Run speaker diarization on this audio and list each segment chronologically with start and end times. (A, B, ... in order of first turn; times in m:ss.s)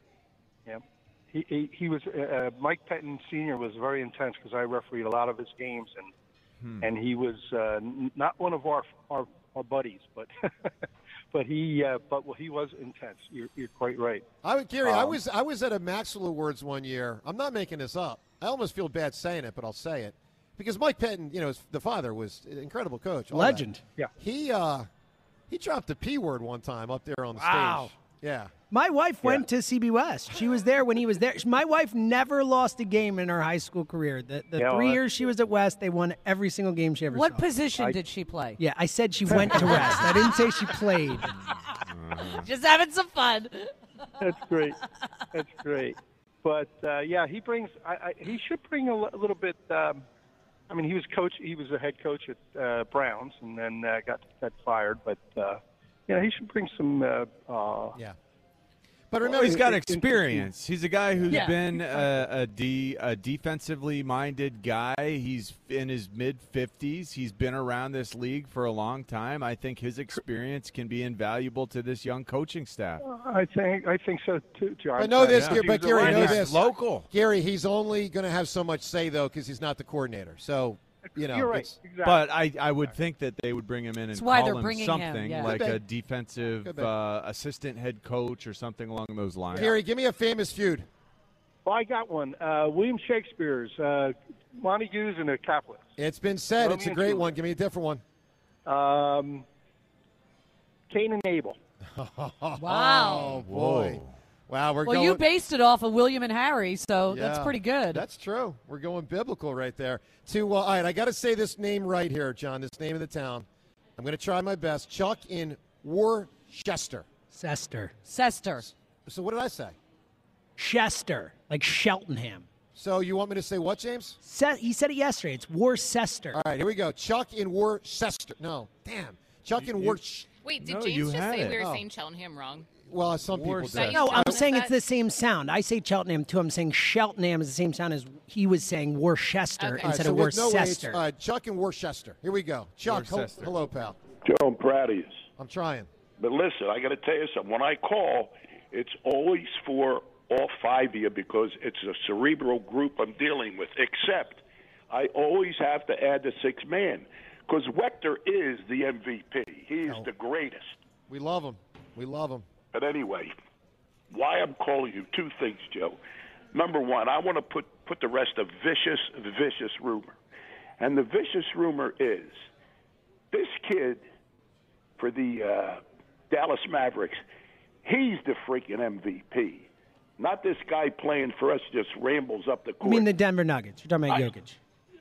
0:00.6-0:06.1 A
0:06.6-0:06.9 B
0:06.8-0:10.7 A
0:11.3-0:14.2 A
0:14.4-0:23.6 C
0:14.8-0:15.2 A
0:23.3-0:23.8 D
0:24.2-0:24.9 C
0:25.5-0:28.5 C
0:27.4-0:27.9 D
0:28.7-0:37.5 D
0:34.6-0:35.0 A
0:37.1-0:38.6 E
0:38.6-0:41.3 D
0:39.4-0:39.6 A
0:39.6-0:40.4 E
0:41.9-0:42.5 B
0:42.2-0:43.7 E
0:44.2-0:44.8 A
0:45.3-0:50.0 A
0:50.7-0:58.0 A
0:59.1-0:59.8 C
0:59.2-1:00.5 A
0:59.3-1:13.0 B
1:01.3-1:02.1 E
1:13.0-1:16.5 A
1:15.0-1:21.8 C
1:15.2-1:17.1 B
1:21.1-1:22.2 A
1:22.0-1:29.8 B
1:24.1-1:25.6 E
1:25.4-1:25.8 C
1:26.6-1:26.9 C
1:29.5-1:30.9 C
1:31.6-1:35.8 A
1:36.0-1:38.0 C
1:36.6-1:37.2 A
1:38.6-1:39.4 A
1:40.9-1:41.6 A
1:41.8-1:45.2 C
1:42.6-1:43.4 E
1:43.2-1:44.1 B
1:44.8-1:48.0 E
1:47.1-1:57.0 C
1:57.3-1:58.0 D
1:58.0-1:58.7 E
1:59.1-1:59.8 C
2:00.6-2:02.4 D
2:02.7-2:04.2 C
2:04.2-2:06.4 D
2:06.3-2:10.2 C
2:09.7-2:10.0 B
2:10.4-2:12.7 F
2:10.6-2:11.6 B
2:11.5-2:11.8 C
2:12.9-2:14.4 C
2:13.3-2:14.0 B
2:13.7-2:14.7 F
2:13.8-2:21.0 D
2:19.6-2:19.9 F
2:19.8-2:24.0 C
2:22.8-2:23.5 B
2:24.2-2:25.2 G
2:25.4-2:25.9 C
2:26.2-2:40.8 G
2:41.1-2:42.4 C
2:42.7-2:43.3 G
2:44.1-2:46.0 G
2:46.5-2:50.2 G
2:50.8-2:52.5 G
2:53.3-2:54.0 G
2:55.0-2:57.2 G
2:57.8-3:03.1 G
3:02.8-3:04.6 D